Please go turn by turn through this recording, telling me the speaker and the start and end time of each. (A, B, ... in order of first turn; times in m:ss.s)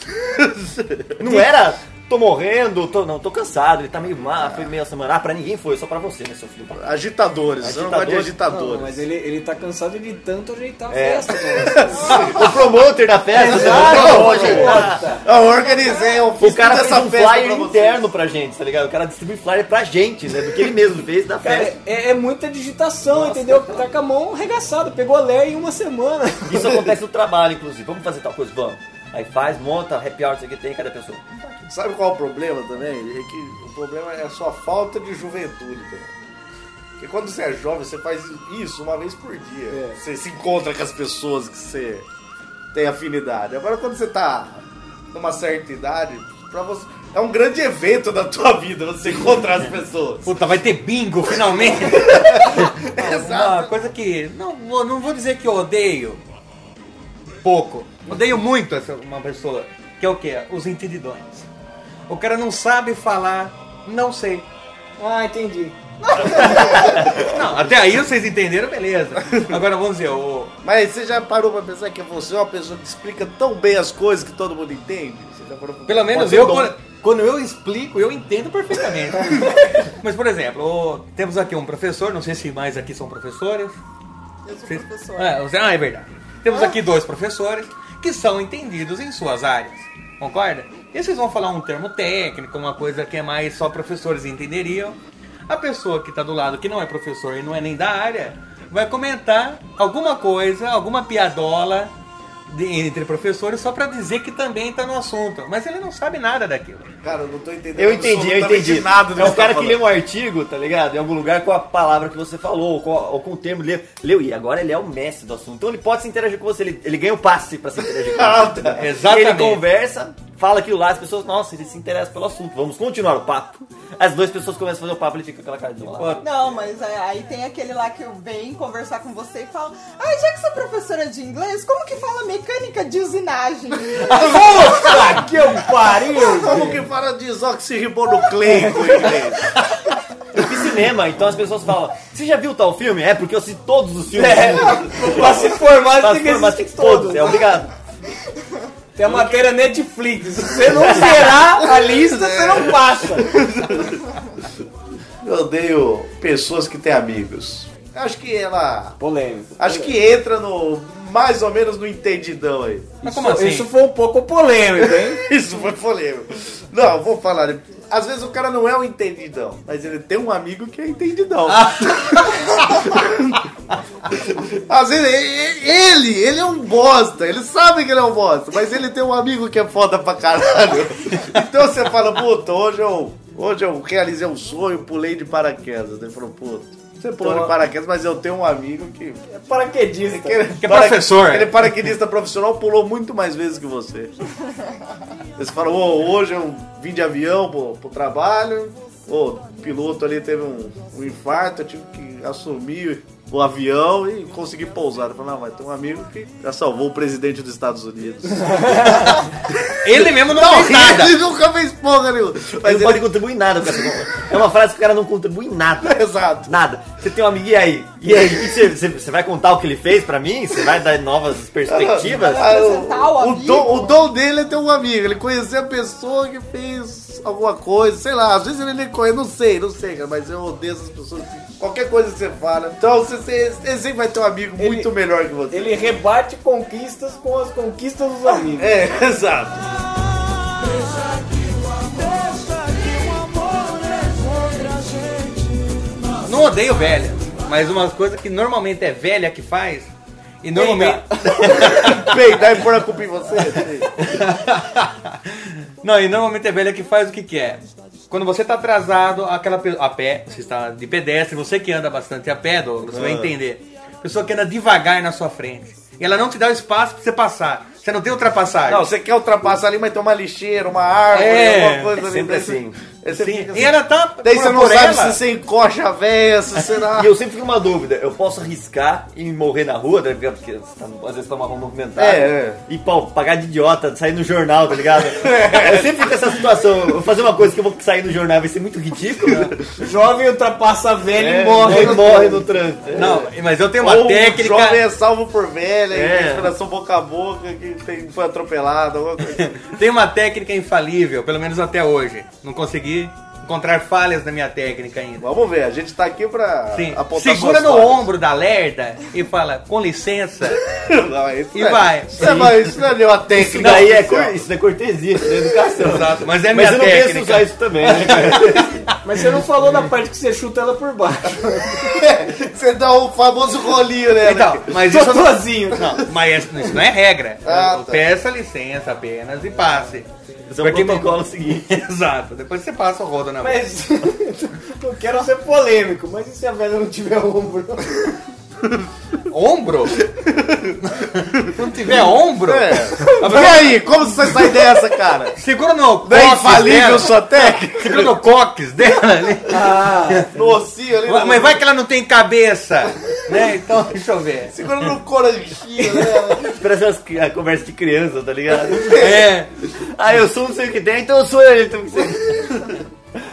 0:00.4-0:01.5 A
0:01.2-0:06.8 B
0:04.4-0:04.7 A
0:06.8-0:09.0 A
0:07.6-0:08.4 B
0:08.5-0:12.2 C
0:10.9-0:15.0 B
0:11.6-0:12.5 A
0:13.3-0:15.2 C
0:13.4-0:18.0 A
0:16.4-0:21.8 B
0:21.4-0:26.9 C
0:23.1-0:23.8 B
0:26.4-0:31.5 B
0:31.6-0:36.1 A
0:37.0-0:42.0 A
0:39.7-0:40.0 C
0:42.7-0:50.3 A
0:50.2-0:56.2 D
0:51.5-0:53.7 A
0:57.4-1:01.5 D
1:02.1-1:04.4 D
1:05.0-1:06.8 C
1:06.0-1:06.9 E
1:06.6-1:07.2 B
1:07.1-1:10.5 D
1:10.6-1:16.3 A
1:15.8-1:23.8 D
1:16.1-1:16.7 B
1:24.4-1:25.4 E
1:24.7-1:35.0 D
1:35.5-1:41.9 D
1:42.5-1:46.9 D
1:47.0-1:49.9 A
1:47.8-2:06.3 B
1:58.0-1:58.8 A
1:58.8-1:59.6 D
2:06.0-2:06.2 D
2:06.2-2:14.7 E
2:14.1-2:16.8 C
2:16.2-2:19.6 A
2:18.4-2:19.1 C
2:20.3-2:27.7 B
2:24.1-2:27.4 C
2:29.0-2:33.4 C
2:30.8-2:31.4 B
2:31.8-2:34.0 A
2:35.2-2:39.0 A
2:39.0-2:39.9 C
2:39.6-2:42.9 A
2:43.0-2:43.7 D
2:43.0-2:45.2 C
2:45.0-2:53.4 A
2:51.5-2:52.8 D
2:54.3-3:09.2 A
3:07.2-3:07.5 C
3:09.3-3:10.6 C
3:10.1-3:14.1 A
3:10.6-3:11.7 D
3:15.4-3:28.9 A
3:28.4-3:29.1 C
3:28.9-3:31.1 D
3:29.9-3:33.2 A
3:32.6-3:42.8 B
3:35.8-3:36.5 A
3:41.7-3:55.9 A
3:42.2-3:44.0 E
3:54.6-3:54.9 C
3:55.5-3:58.8 C
3:58.5-3:59.6 A
4:02.0-4:03.4 A
4:06.2-4:09.9 D
4:10.4-4:12.5 D
4:10.6-4:11.0 C
4:11.3-4:13.9 A
4:13.9-4:28.9 D
4:22.8-4:23.3 A
4:28.6-4:37.1 A
4:31.1-4:32.0 D
4:32.0-4:32.8 B
4:33.1-4:35.2 D
4:37.0-4:49.6 B
4:42.0-4:42.6 A
4:45.2-4:46.0 A
4:49.8-4:52.4 C
4:51.1-4:53.2 B
4:51.6-4:53.3 A
4:52.9-4:54.8 D
4:53.8-4:59.6 A
4:55.9-4:56.5 B
4:59.4-5:05.2 D
5:05.2-5:08.1 A
5:06.7-5:10.6 D
5:10.6-5:14.4 A
5:11.5-5:12.8 D
5:13.3-5:18.7 B
5:15.8-5:18.7 D
5:19.0-5:22.0 C
5:21.8-5:24.8 A
5:24.2-5:30.1 D
5:24.8-5:26.0 C
5:27.4-5:28.0 A
5:30.5-5:31.7 B
5:30.6-5:33.7 D
5:33.4-5:38.2 C
5:39.3-5:40.0 D
5:40.1-5:40.8 A
5:40.8-5:43.9 D
5:42.4-5:45.4 A
5:45.4-5:50.3 D
5:46.0-5:48.1 A
5:49.5-5:50.3 C
5:50.3-5:51.6 A
5:51.0-5:54.6 D
5:54.5-5:56.6 A
5:56.5-6:02.8 B
5:58.7-5:59.2 A
5:58.9-5:59.5 D